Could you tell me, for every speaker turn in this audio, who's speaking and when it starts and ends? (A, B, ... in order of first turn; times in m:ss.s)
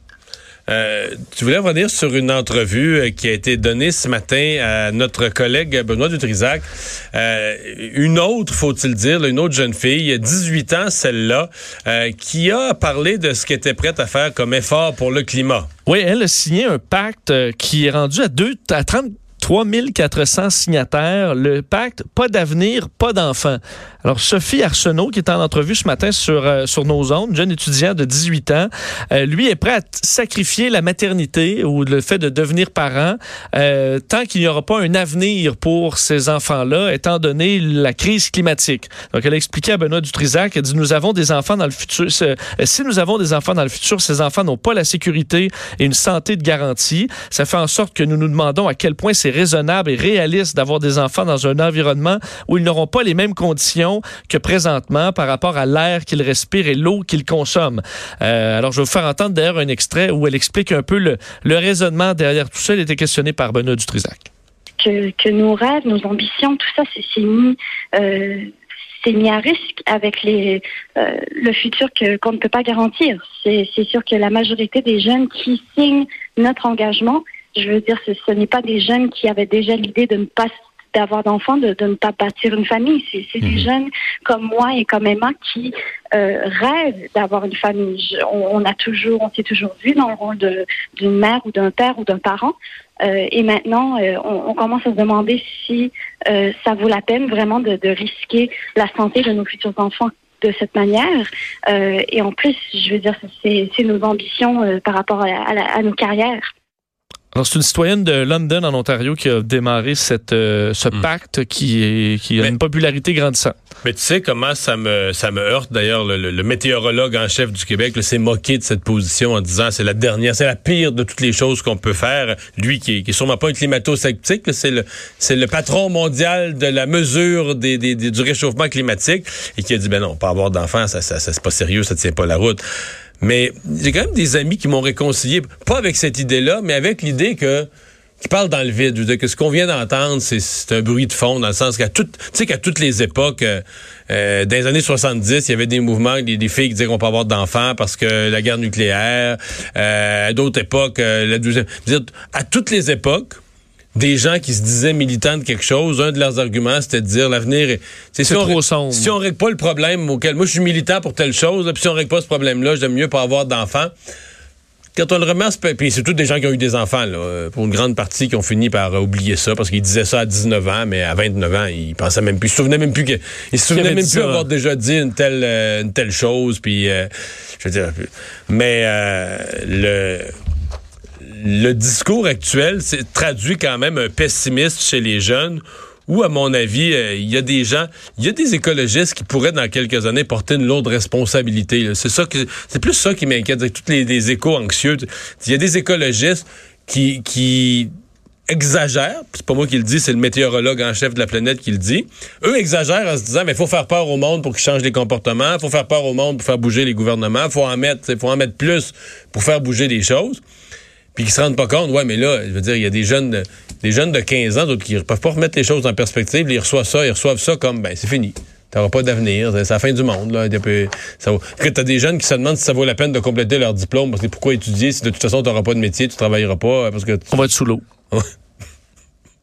0:00.7-0:15.7 A
0:15.9-1:04.3 B
1:04.8-1:08.4 C
1:09.0-1:46.4 C
1:47.3-1:53.6 B
1:53.8-2:12.6 A
2:13.2-2:17.7 A
2:18.2-2:33.4 A
2:34.0-2:43.9 A
2:38.2-2:39.1 B
2:45.0-3:00.3 A
2:53.7-2:54.5 B
3:01.3-3:17.9 A
3:18.5-3:30.4 A
3:31.2-3:47.3 A
3:47.3-3:47.8 B